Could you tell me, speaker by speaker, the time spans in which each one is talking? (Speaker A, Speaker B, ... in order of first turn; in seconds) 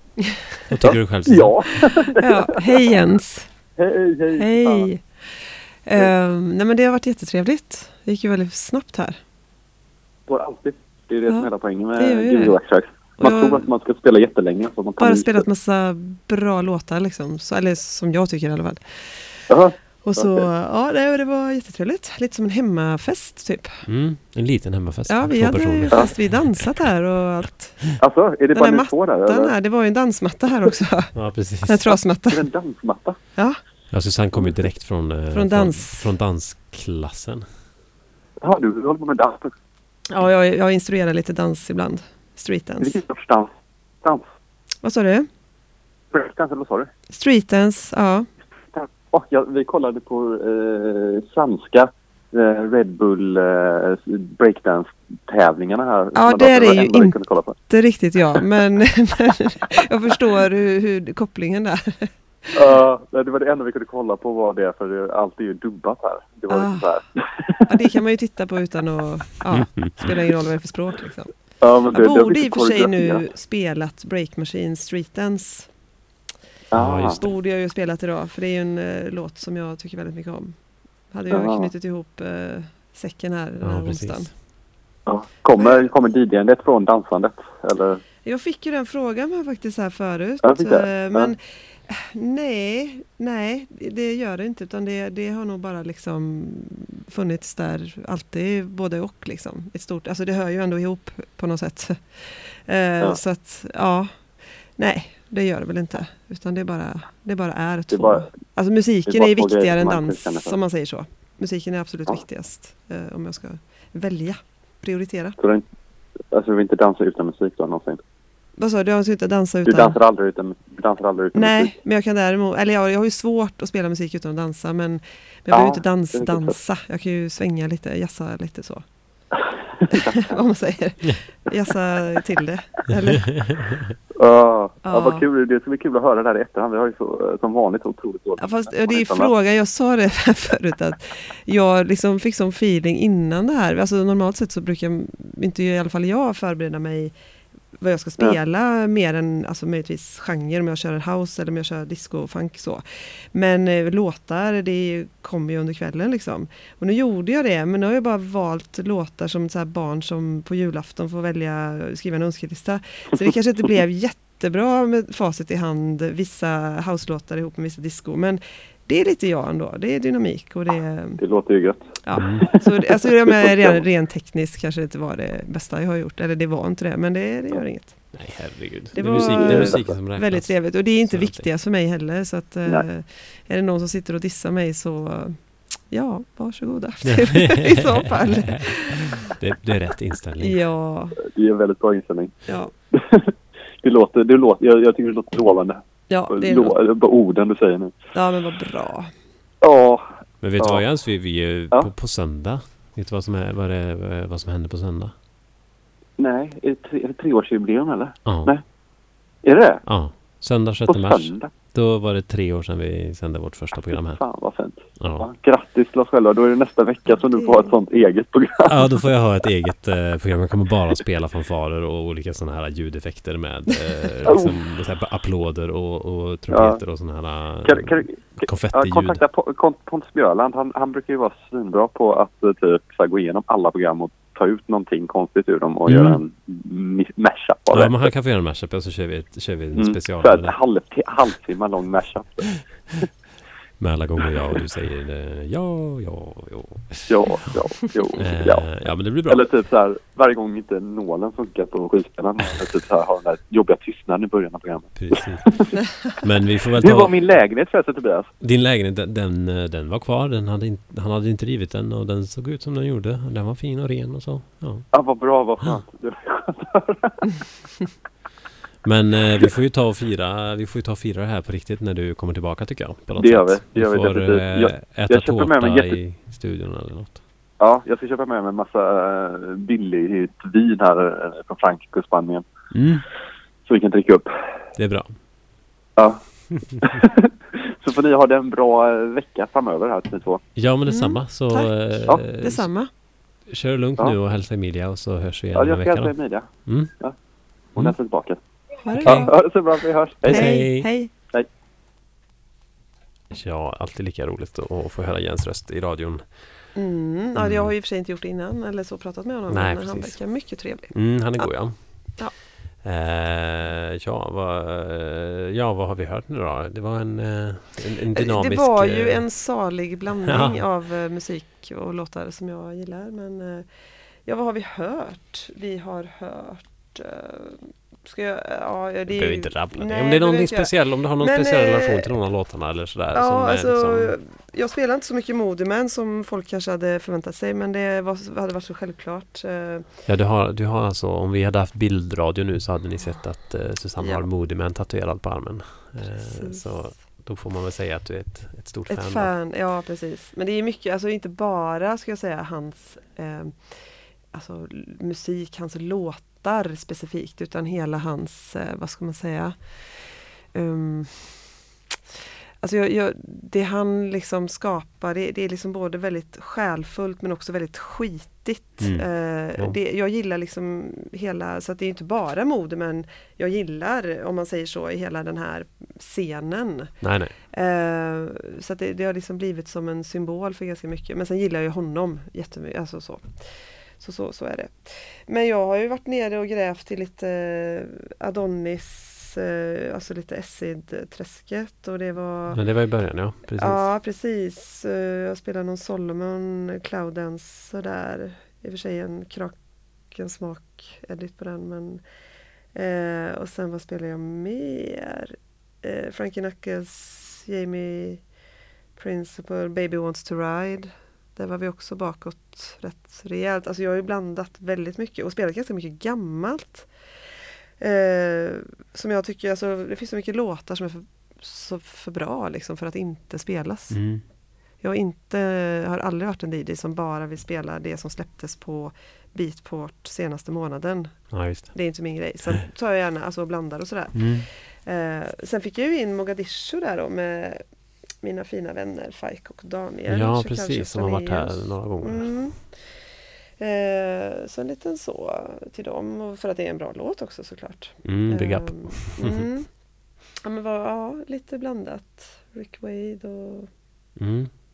Speaker A: 0.3-0.6, 2.2-3.5, 4.3-9.2, 11.3-12.6, 13.2-13.7, 15.0-19.4, 20.1-23.9, 25.1-27.9, 28.5-32.5, 35.3-36.1, 40.1-43.0, 44.8-45.3, 47.1-48.3, 56.1-57.2, 57.7-62.5, 66.5-67.0, 67.7-71.3, 71.9-75.7, 77.1-80.6, 81.1-84.3, 85.6-85.8, 88.2-115.4, 118.6-120.0, 121.3-128.8, 129.9-133.5, 134.8-135.2, 138.4-147.1, 147.8-171.2, 172.0-178.3, 178.9-189.2, 190.4-191.2, 192.5-192.7, 196.1-196.8, 198.1-199.1, 217.3-217.7, 290.9-292.9, 298.8-299.4, 300.2-301.1, 306.8-312.4, 318.1-323.7, 324.2-332.2, 333.1-339.9, 344.0-344.3, 346.0-347.0, 348.9-361.6, 362.6-392.6, 393.6-399.6, 400.1-402.0, 402.7-408.2, 409.0-416.9, 417.8-424.2, 424.8-437.6, 438.2-449.8, 450.3-453.7
Speaker B: 0.7-1.9, 23.9-26.6, 31.1-31.9, 33.9-37.5, 69.5-70.1, 76.7-77.2, 83.6-84.3, 172.2-172.5, 178.1-181.5, 187.1-190.6, 200.4-205.1, 208.3-208.5, 209.8-214.2, 215.0-215.3, 218.7-229.2, 235.9-236.2, 237.7-240.6, 243.8-247.5, 248.2-249.4, 255.0-255.7, 256.2-257.1, 258.4-264.9, 268.9-277.2, 282.7-283.0, 284.8-285.1, 290.6-292.7, 293.5-296.1, 296.6-296.9, 299.0-299.3, 300.2-300.9, 303.3-306.3, 307.4-307.7, 309.5-319.3, 320.3-320.6, 329.1-334.1, 340.1-349.3, 368.8-369.8, 377.0-377.3, 392.5-393.9, 423.9-424.2, 431.3-431.8, 434.1-434.5, 440.1-442.4, 448.0-449.4, 454.2-454.5
Speaker C: 0.8-2.9, 3.8-4.9, 10.3-15.4, 19.5-20.5, 28.0-29.5, 32.3-33.2, 38.4-39.5, 42.8-43.5, 46.1-46.9, 48.7-57.5, 62.5-67.6, 71.6-73.2, 76.7-77.2, 81.3-81.7, 85.1-88.0, 90.4-91.3, 107.9-108.3, 109.1-110.5, 115.4-115.6, 116.3-118.0, 119.7-121.7, 125.5-126.5, 129.9-130.2, 134.2-139.3, 171.2-171.8, 173.3-173.8, 179.0-179.9, 191.2-192.3, 192.9-193.3, 193.8-197.9, 199.6-200.1, 200.6-200.8, 206.2-208.6, 209.4-209.8, 210.9-211.5, 213.9-218.8, 224.2-224.6, 226.5-226.8, 227.6-238.1, 239.7-242.5, 247.1-248.7, 249.3-255.7, 256.8-258.3, 264.9-267.2, 273.1-276.0, 277.6-282.5, 283.7-284.3, 286.8-290.4, 295.5-296.5, 297.8-298.4, 298.9-300.6